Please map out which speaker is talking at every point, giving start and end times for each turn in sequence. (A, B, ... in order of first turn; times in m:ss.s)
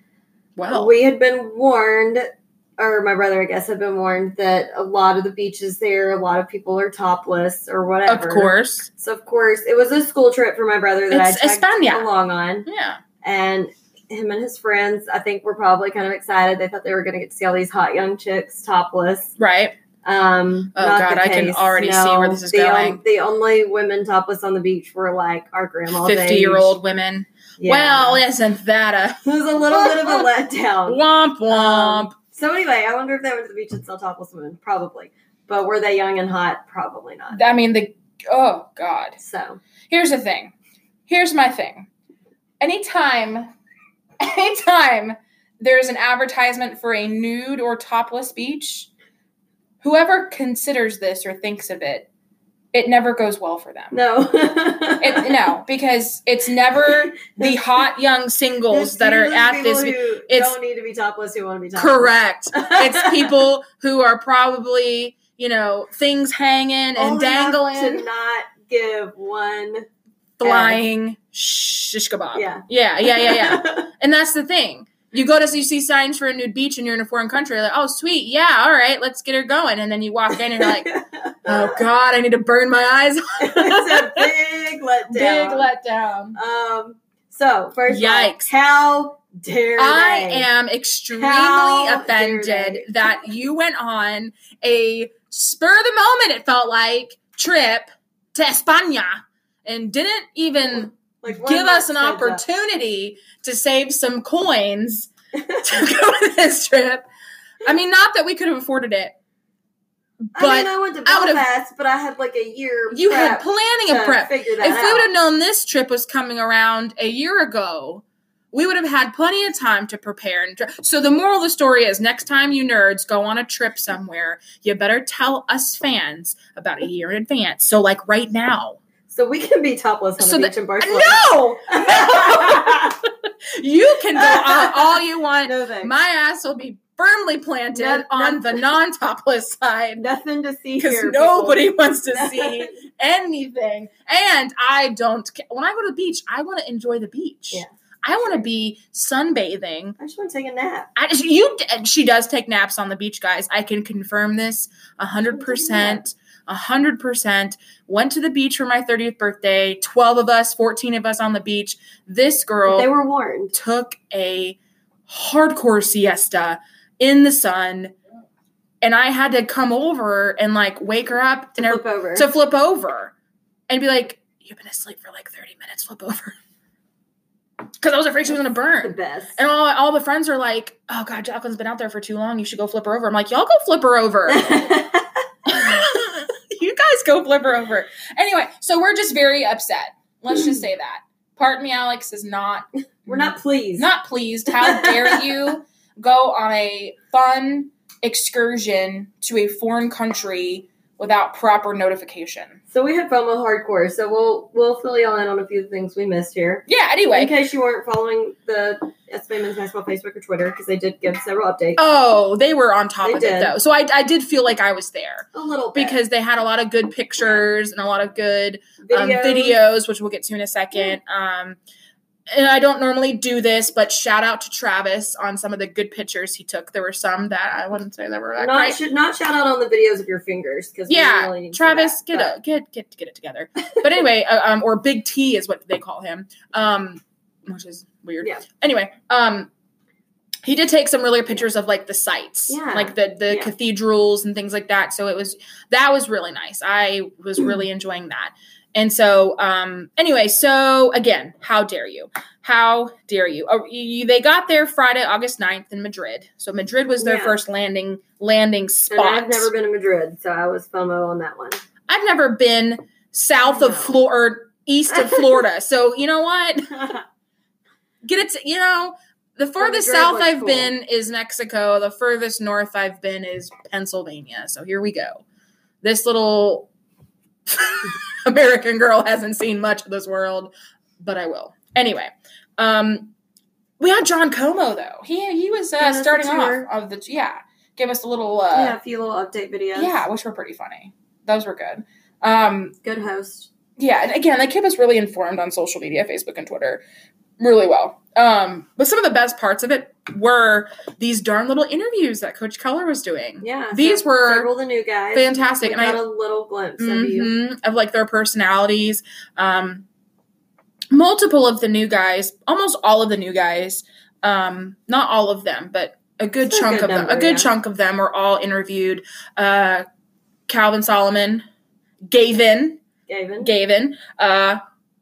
0:00.6-0:00.9 A
0:00.7-0:12.7 B
0:08.1-0:08.9 A
0:11.1-0:12.1 A
0:12.6-0:13.0 A
0:13.2-0:19.3 B
0:19.4-0:19.8 A
0:20.0-0:26.8 B
0:20.7-0:23.0 A
0:26.0-0:30.2 A
0:27.6-0:28.2 B
0:29.2-0:37.4 B
0:30.9-0:32.1 A
0:37.3-0:39.2 A
0:39.2-0:39.6 B
0:39.9-0:40.5 A
0:41.1-0:41.9 A
0:42.6-0:43.5 A
0:44.2-0:48.9 A
0:49.8-0:52.1 A
0:52.7-0:54.0 A
0:53.9-0:55.3 B
0:55.0-1:00.6 A
0:58.7-1:03.4 B
1:01.7-1:08.0 A
1:07.0-1:09.8 B
1:10.4-1:24.3 A
1:10.4-1:10.8 B
1:12.3-1:13.9 B
1:20.4-1:21.8 B
1:23.4-1:25.7 B
1:25.1-1:26.4 A
1:26.3-1:30.5 B
1:27.9-1:28.5 A
1:29.8-1:47.0 A
1:31.1-1:32.9 B
1:41.2-1:42.4 B
1:45.4-1:45.6 B
1:47.6-1:49.1 A
1:50.3-1:51.4 A
1:50.3-1:55.1 B
1:52.9-2:08.8 A
2:09.1-2:12.9 B
2:10.2-2:20.0 A
2:14.1-2:15.9 B
2:17.7-2:18.6 B
2:20.0-2:22.7 B
2:20.8-2:30.0 A
2:27.5-2:28.4 B
2:30.0-2:30.9 B
2:31.0-2:42.9 A
2:35.3-2:36.0 B
2:42.6-2:43.5 B
2:43.5-2:47.9 A
2:48.8-2:53.1 A
2:51.6-2:52.2 B
2:53.7-2:56.4 A
2:57.8-3:04.7 A
2:58.8-2:59.4 B
3:04.3-3:05.8 B
3:05.4-3:22.6 A
3:13.0-3:13.9 B
3:14.5-3:15.3 B
3:22.7-3:31.8 B
3:26.7-3:27.3 A
3:31.8-3:41.6 A
3:33.0-3:33.5 B
3:35.3-3:36.0 B
3:38.8-3:39.6 B
3:42.3-3:48.8 A
3:48.4-3:52.3 B
3:50.9-3:59.5 A
4:00.4-4:19.5 A
4:02.5-4:03.5 B
4:17.0-4:17.4 B
4:18.9-4:21.6 B
4:21.9-4:27.0 A
4:23.4-4:24.0 B
4:24.9-4:25.2 B
4:28.0-4:35.2 A
4:29.6-4:30.7 B
4:35.8-4:36.7 A
4:37.5-4:43.1 A
4:43.8-4:48.8 A
4:45.8-4:46.7 B
4:48.5-4:50.0 B
4:49.7-4:52.7 A
4:52.8-4:53.5 B
4:53.8-4:56.8 A
4:57.4-5:04.5 A
5:03.4-5:07.3 B
5:05.1-5:06.0 A
5:06.8-5:09.8 A
5:10.9-5:19.8 A
5:16.4-5:17.5 B
5:20.5-5:21.4 A
5:22.1-5:22.8 A
5:23.1-5:23.5 B
5:23.4-5:24.6 A